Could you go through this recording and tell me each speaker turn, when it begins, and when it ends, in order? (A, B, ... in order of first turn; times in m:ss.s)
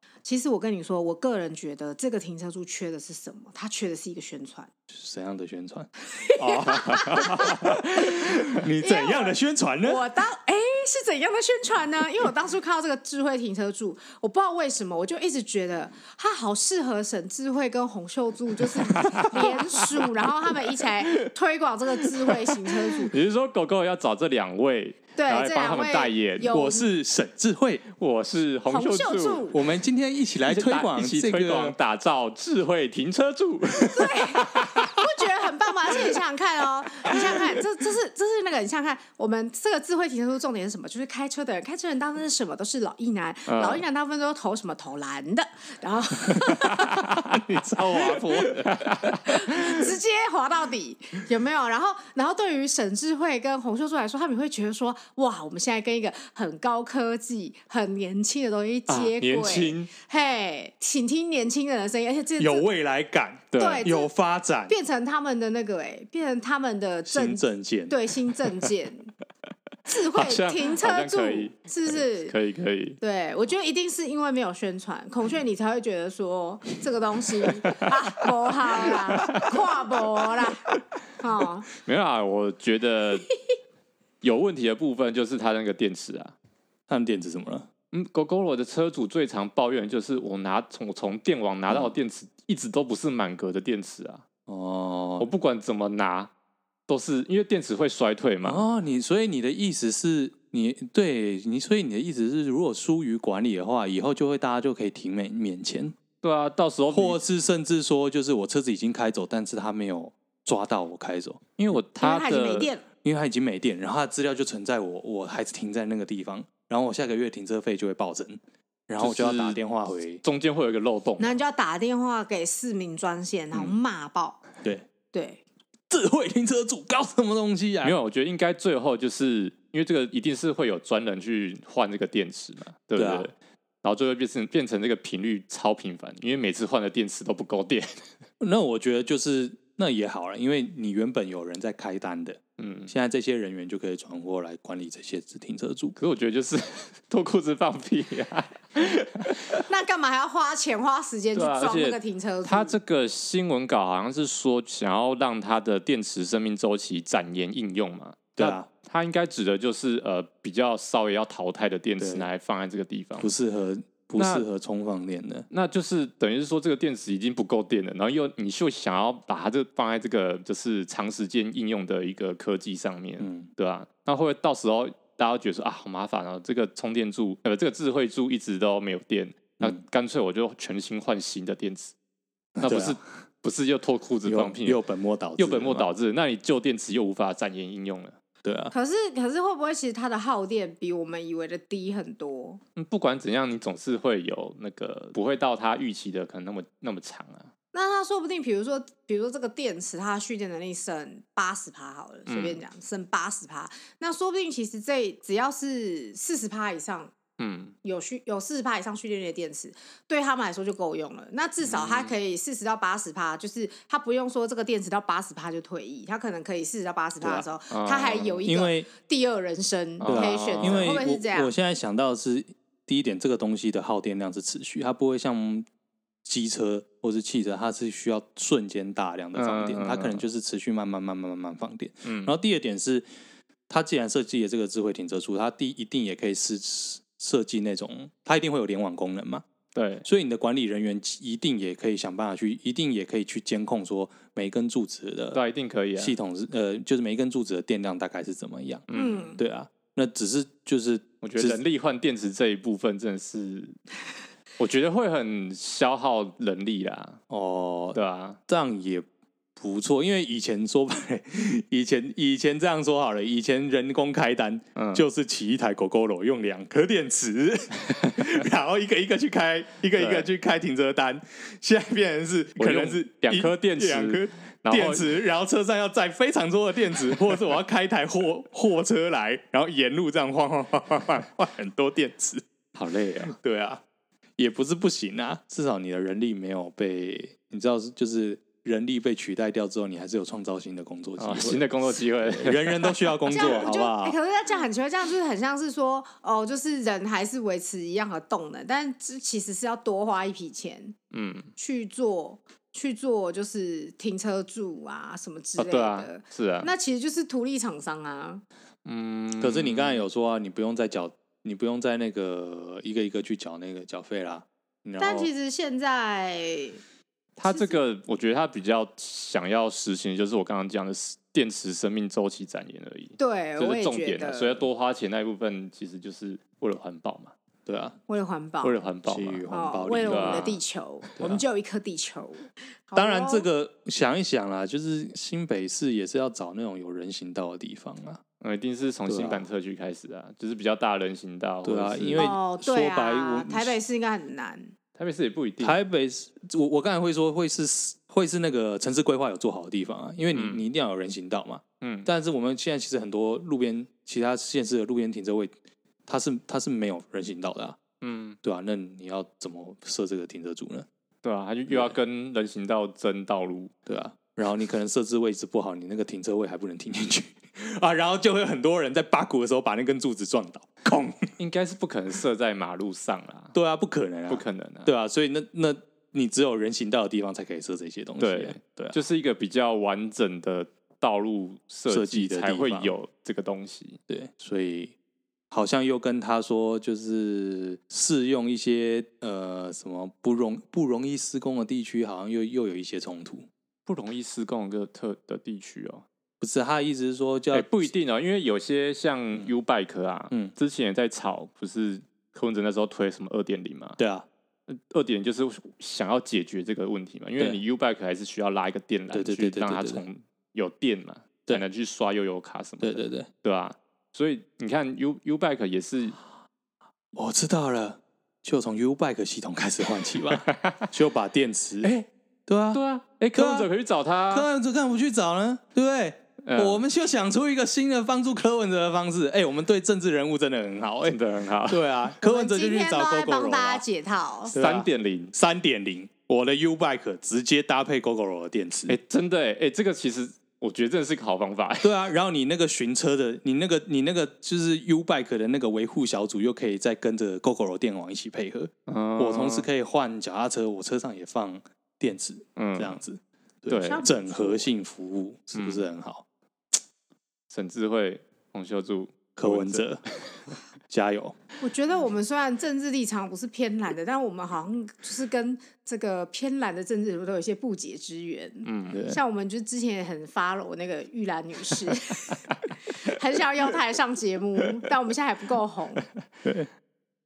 0:00.2-0:04.7 A
0:04.9-0:10.0 B
0:06.2-0:07.8 A
0:08.8-0:23.1 A
0:18.8-0:21.3 C
0:22.2-0:26.6 C
0:25.2-0:26.9 A
0:26.5-0:27.8 B
0:27.9-0:29.5 C
0:28.7-0:29.6 A
0:29.5-0:31.8 B
0:30.4-0:35.1 C
0:33.8-0:47.0 A
0:35.9-0:36.2 C
0:37.0-0:37.5 C
0:43.5-0:43.8 C
0:46.6-0:49.8 C
0:47.3-0:48.7 B
0:49.2-1:02.7 A
0:58.9-0:59.9 C
1:02.4-1:04.7 B
1:03.5-1:03.9 C
1:03.6-1:04.1 A
1:04.7-1:09.1 A
1:07.0-1:08.0 B
1:09.9-1:12.3 A
1:09.9-1:13.0 C
1:13.0-1:21.7 A
1:17.5-1:20.4 C
1:21.8-1:23.3 C
1:24.2-1:26.3 C
1:26.9-1:27.7 B
1:27.9-1:34.2 C
1:34.5-1:35.3 B
1:35.2-1:36.3 C
1:36.9-1:38.6 C
1:38.4-1:45.9 B
1:46.2-1:47.2 C
1:46.9-1:51.4 B
1:51.6-1:52.7 C
1:52.0-1:52.8 A
1:53.0-2:00.2 B
1:59.0-1:59.6 C
2:00.2-2:01.4 C
2:01.2-2:04.4 A
2:05.1-2:05.4 A
2:05.9-2:07.9 B
2:07.8-2:18.1 C
2:13.0-2:13.3 B
2:18.4-2:26.0 B
2:22.6-2:22.9 C
2:26.0-2:29.6 C
2:29.5-2:32.8 A
2:31.3-2:43.3 C
2:38.4-2:38.7 B
2:42.0-2:42.2 B
2:43.2-2:45.5 B
2:44.2-2:44.4 C
2:45.5-3:01.9 C
2:53.2-2:53.5 B
3:02.6-3:03.0 B
3:02.6-3:04.8 C
3:04.2-3:05.9 B
3:05.4-3:08.2 C
3:08.4-3:08.7 B
3:08.7-3:12.6 A
3:12.8-3:17.5 C
3:17.7-3:27.1 A
3:22.3-3:22.6 C
3:27.4-3:27.7 C
3:27.8-3:41.5 A
3:31.6-3:32.1 C
3:37.7-3:38.4 C
3:38.4-3:38.9 B
3:40.0-3:41.0 C
3:40.0-3:45.7 B
3:46.2-3:53.1 B
3:49.3-3:50.2 C
3:52.0-3:52.3 C
3:53.7-3:59.4 B
3:59.7-4:00.0 C
4:00.0-4:05.4 B
4:05.3-4:06.2 C
4:06.0-4:08.8 B
4:08.9-4:09.4 C
4:08.9-4:09.4 A
4:09.4-4:11.6 B
4:11.2-4:13.8 C
4:14.6-4:17.2 C
4:17.3-4:42.4 B
4:17.9-4:18.4 C
4:24.7-4:25.0 C
4:29.9-4:30.3 C
4:32.6-4:35.2 C
4:42.7-4:43.3 C
4:43.3-4:43.8 B
4:44.4-4:54.2 B
4:51.2-4:53.7 C
4:53.3-5:01.0 A
5:01.1-5:01.5 C
5:01.6-5:08.4 A
5:05.6-5:06.7 C
5:08.8-5:10.0 C
5:09.4-5:15.3 B
5:15.0-5:16.8 A
5:17.4-5:27.3 C
5:17.4-5:17.8 A
5:23.2-5:24.6 A
5:27.6-5:28.0 B
5:28.1-5:28.8 A
5:28.6-5:29.4 C
5:29.0-5:30.6 B
5:29.5-5:33.5 A
5:30.0-5:30.6 C
5:33.0-5:38.2 B
5:38.4-5:42.3 C
5:39.1-5:39.4 B
5:41.6-5:43.8 B
5:42.2-5:44.7 A
5:45.0-5:45.8 C
5:45.6-5:55.5 B
5:50.3-5:50.6 C
5:51.8-5:52.1 C
5:56.0-5:57.8 B
5:58.0-5:58.4 C
5:58.4-6:00.9 B
6:01.2-6:03.7 C
6:01.7-6:02.0 B
6:03.8-6:11.3 B
6:11.4-6:13.5 C
6:13.5-6:19.0 B
6:14.3-6:14.9 C
6:18.2-6:24.0 C
6:21.9-6:22.9 B
6:24.1-6:24.9 B
6:25.5-6:33.5 B
6:33.8-6:36.0 C
6:36.4-6:37.9 B
6:37.5-6:44.0 C
6:44.0-6:44.3 B
6:44.7-6:56.2 C
6:49.1-6:50.0 B
6:52.8-6:53.3 B
6:57.1-7:01.9 B
7:00.2-7:00.9 C
7:01.8-7:02.1 C
7:02.5-7:02.8 B
7:02.7-7:04.5 C
7:03.3-7:03.7 B
7:04.3-7:13.8 B
7:06.4-7:06.8 C
7:11.0-7:12.1 C
7:12.2-7:14.6 A
7:14.5-7:15.3 C
7:14.5-7:19.0 B
7:18.9-7:21.9 C
7:21.8-7:36.2 B
7:28.9-7:29.7 C
7:32.6-7:33.0 C
7:33.7-7:34.1 C
7:33.8-7:34.7 A
7:35.5-7:35.8 C
7:37.5-7:40.5 C
7:39.4-7:40.0 B
7:40.9-7:41.4 B
7:41.6-7:56.0 A
7:48.6-7:49.0 C
7:48.9-7:49.2 B